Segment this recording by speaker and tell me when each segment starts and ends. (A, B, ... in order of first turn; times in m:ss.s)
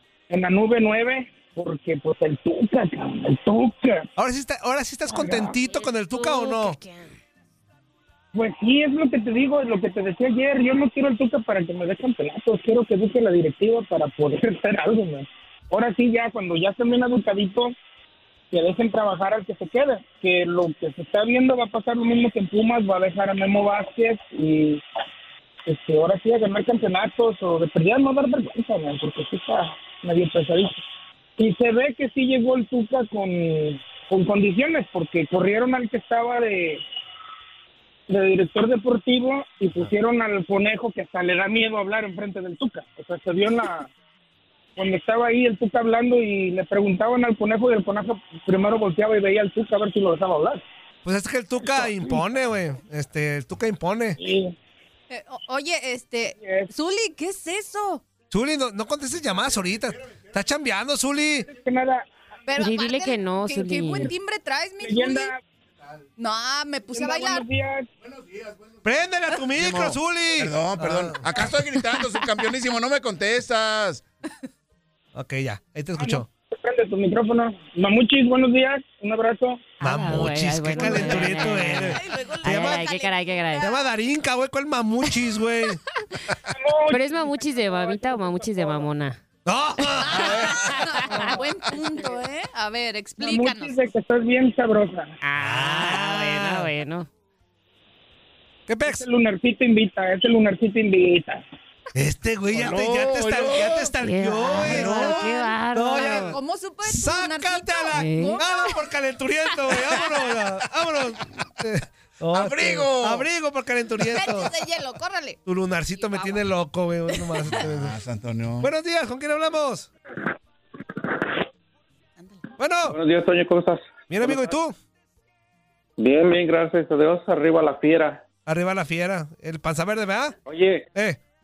0:00.3-0:04.1 A
0:04.2-0:06.8 B
0:05.1-0:05.5 A
0:05.7-0:07.1 C
0:08.3-0:17.7 A
0:18.5-0:24.8 A
0:25.7-0:30.8 A
0:31.4-0:36.8 A
0:38.1-0:43.9 A
0:44.8-0:50.6 A
0:51.0-0:54.2 B
0:54.2-0:54.6 A
0:55.1-0:58.0 D
0:56.4-0:56.7 A
0:58.3-1:01.5 B
1:01.4-1:02.0 A
1:02.5-1:05.3 D
1:02.6-1:04.1 C
1:04.8-1:05.3 A
1:06.2-1:07.4 D
1:06.9-1:07.9 A
1:08.0-1:08.8 E
1:08.8-1:11.2 B
1:09.6-1:14.0 E
1:15.1-1:16.3 B
1:16.0-1:19.7 A
1:19.8-1:23.7 C
1:19.8-1:22.8 B
1:21.7-1:23.8 D
1:23.6-1:25.8 B
1:26.5-1:28.9 A
1:26.9-1:29.2 C
1:29.4-1:30.5 B
1:30.0-1:33.8 D
1:30.6-1:31.3 C
1:31.1-1:32.2 A
1:33.2-1:35.1 A
1:35.2-1:37.1 C
1:35.4-1:36.7 B
1:38.7-1:39.0 B
1:38.8-1:41.4 A
1:42.0-1:54.5 B
1:42.5-1:43.9 E
1:44.0-1:46.4 C
1:46.0-1:48.8 D
1:47.9-1:48.4 C
1:52.3-1:53.3 E
1:54.1-1:56.5 D
1:55.4-1:58.0 B
1:57.1-1:57.4 D
1:57.6-1:58.7 E
1:58.6-1:59.9 B
2:02.2-2:02.4 D
2:02.6-2:03.0 B
2:02.9-2:04.6 F
2:04.1-2:04.7 B
2:06.0-2:08.2 F
2:08.4-2:10.4 B
2:10.4-2:10.9 F
2:10.9-2:11.2 B